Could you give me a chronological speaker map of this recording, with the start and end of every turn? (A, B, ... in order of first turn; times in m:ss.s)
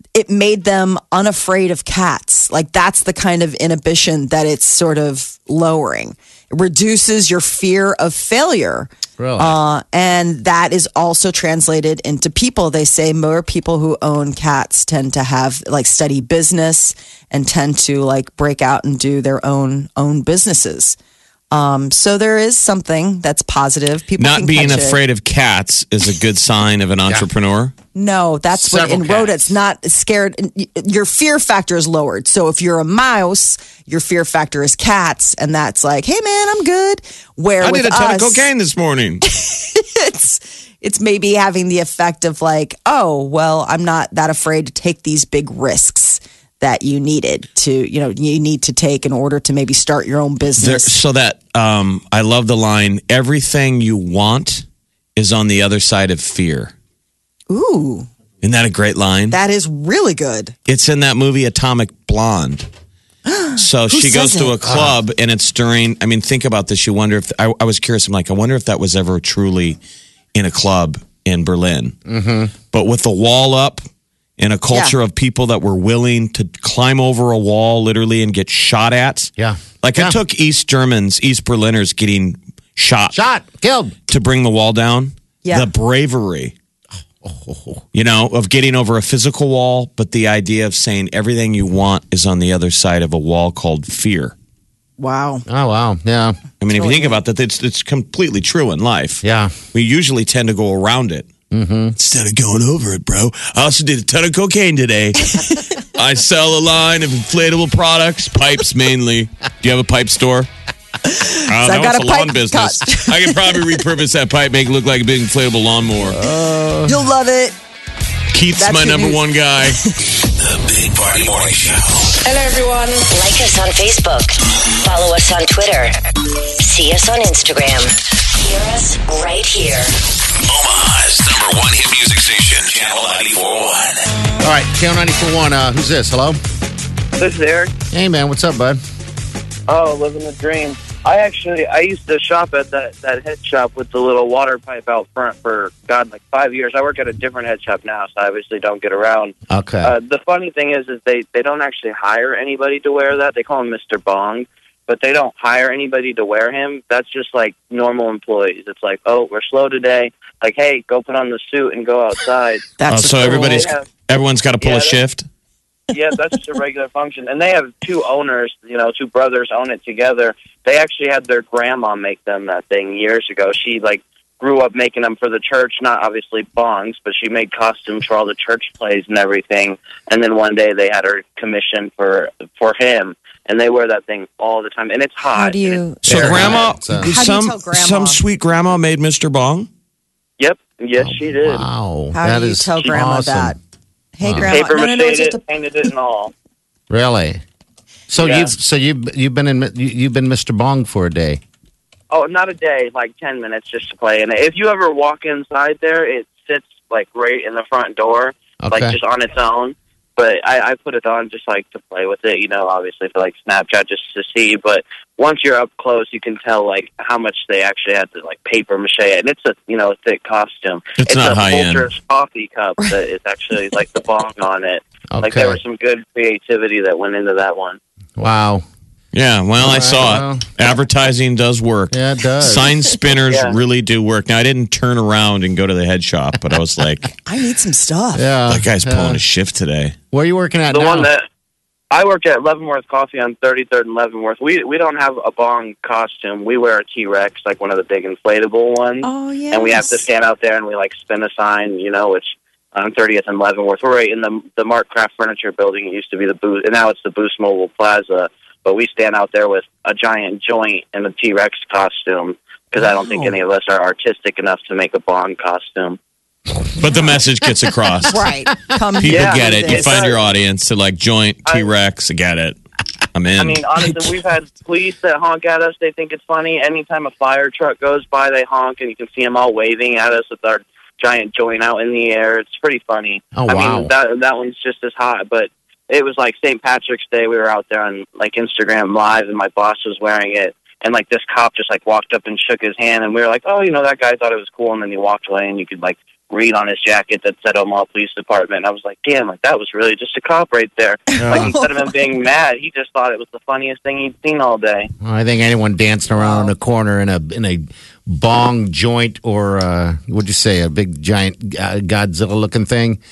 0:00.2-0:21.0 A
0:09.2-0:09.6 B
0:21.5-0:25.0 A
0:24.2-0:27.7 C
0:28.0-0:38.5 A
0:28.5-0:29.5 B
0:37.6-0:39.2 C
0:39.3-0:51.0 A
0:50.6-0:54.6 C
0:55.2-0:56.7 C
0:57.5-0:58.1 A
0:58.4-0:59.4 C
0:59.3-1:00.5 A
1:00.7-1:02.7 C
1:03.3-1:04.6 A
1:03.6-1:09.8 C
1:04.6-1:05.0 B
1:10.3-1:12.0 C
1:12.1-1:12.5 B
1:12.7-1:13.8 C
1:14.4-1:23.2 C
1:19.4-1:20.2 B
1:23.1-1:24.0 B
1:24.1-1:26.5 C
1:25.4-1:25.7 A
1:27.2-1:27.8 B
1:27.9-1:34.4 C
1:35.0-1:35.4 A
1:35.5-1:36.4 B
1:36.6-1:41.3 C
1:36.7-1:37.2 A
1:39.2-1:39.6 B
1:41.5-1:42.0 B
1:42.0-1:50.5 C
1:45.3-1:45.6 A
1:51.0-1:53.6 A
1:51.5-1:56.2 C
1:56.1-1:57.0 B
1:56.9-1:57.6 A
1:58.3-1:59.8 C
1:58.6-1:59.9 A
2:00.4-2:02.2 D
2:03.0-2:10.1 E
2:10.4-2:14.1 D
2:14.4-2:16.4 B
2:17.2-2:17.7 F
2:17.9-2:18.8 B
2:19.7-2:42.7 F
2:29.5-2:30.0 B
2:42.8-2:43.7 A
2:42.9-2:45.3 C
2:43.2-2:43.9 F
2:44.6-2:45.0 F
2:45.9-3:05.8 F
3:05.3-3:08.2 A
3:06.0-3:07.2 B
3:06.0-3:09.7 C
3:10.4-3:11.6 F
3:11.0-3:13.6 B
3:12.1-3:13.6 A
3:14.2-3:15.4 A
3:14.2-3:14.5 B
3:14.5-3:16.3 F
3:16.9-3:17.4 B
3:18.1-3:21.4 B
3:18.2-3:18.5 F
3:22.1-3:47.8 F
3:28.6-3:29.0 B
3:41.0-3:41.9 C
3:45.1-3:45.6 B
3:48.2-3:48.6 B
3:49.1-3:57.2 C
3:49.6-3:50.5 B
3:51.9-3:52.7 B
3:53.3-3:53.6 F
3:57.2-3:58.3 A
3:58.2-3:59.2 B
3:58.5-4:00.0 C
4:00.1-4:01.1 B
4:00.7-4:01.3 F
4:01.9-4:26.0 F
4:09.0-4:10.0 A
4:26.8-4:28.3 C
4:28.1-4:30.0 A
4:29.0-4:32.6 C
4:29.0-4:30.2 F
4:33.1-4:33.6 C
4:33.4-5:04.9 F
4:43.3-4:43.9 B
5:01.1-5:01.7 A
5:01.2-5:01.6 B
5:05.0-5:13.0 B
5:06.2-5:06.5 A